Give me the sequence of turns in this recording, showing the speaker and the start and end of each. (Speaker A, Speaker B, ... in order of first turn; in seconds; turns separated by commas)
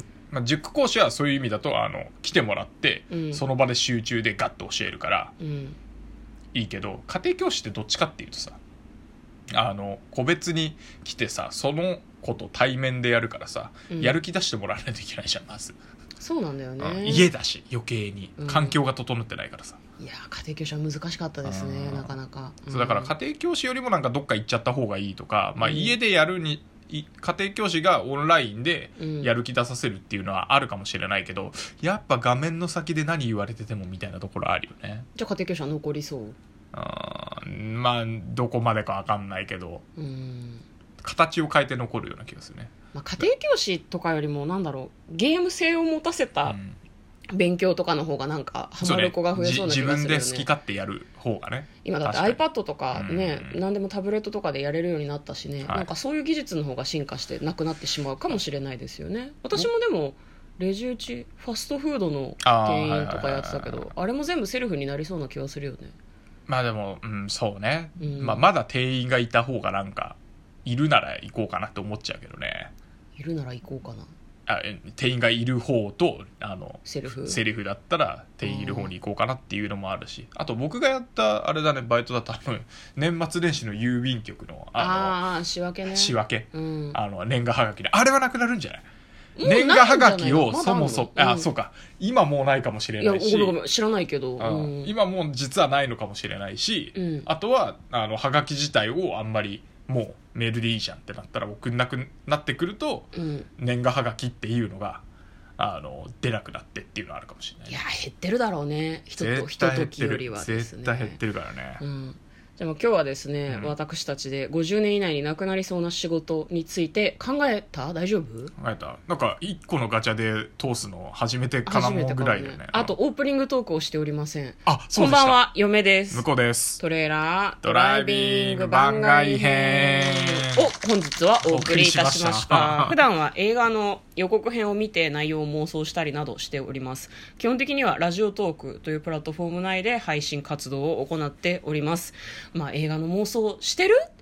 Speaker A: 0.3-5.3, Speaker B: 3.1-3.4, Speaker B: 5.4-5.8, Speaker A: 6.5-8.6, Speaker A: 9.5-15.8, Speaker B: 13.9-14.2, Speaker B: 16.2-17.3, Speaker A: 16.8-19.8, Speaker B: 18.4-18.8, Speaker B: 20.0-23.1, Speaker A: 21.4-22.1, Speaker A: 22.7-35.1, Speaker B: 25.6-25.9, Speaker B: 29.0-29.3, Speaker B: 35.1-36.4, Speaker A: 36.7-39.8, Speaker B: 40.0-40.6, Speaker A: 41.0-42.7, Speaker B: 42.9-46.6, Speaker A: 46.5-46.8, Speaker B: 47.3-50.5, Speaker A: 48.8-52.4, Speaker B: 51.8-65.9, Speaker A: 52.9-53.6, Speaker A: 62.4-63.9, Speaker A: 66.5-72.7, Speaker B: 68.0-68.4, Speaker B: 73.2-74.1, Speaker A: 74.5-85.2, Speaker B: 76.8-77.4, Speaker B: 78.4-78.9, Speaker B: 84.8-87.0, Speaker A: 85.9-88.8, Speaker B: 89.3-91.5, Speaker A: 89.4-93.5, Speaker B: 93.0-94.9, Speaker A: 94.4-105.0, Speaker B: 96.9-97.3, Speaker B: 103.1-103.5, Speaker A: 105.6-107.8, Speaker B: 107.7-111.2, Speaker A: 109.2-111.8, Speaker B: 111.8-118.5, Speaker A: 113.5-113.7, Speaker A: 118.6-122.9, Speaker B: 121.7-126.3, Speaker A: 124.7-125.4, Speaker A: 126.1-126.8, Speaker B: 126.8-144.0, Speaker A: 127.6-130.6, Speaker A: 131.4-133.0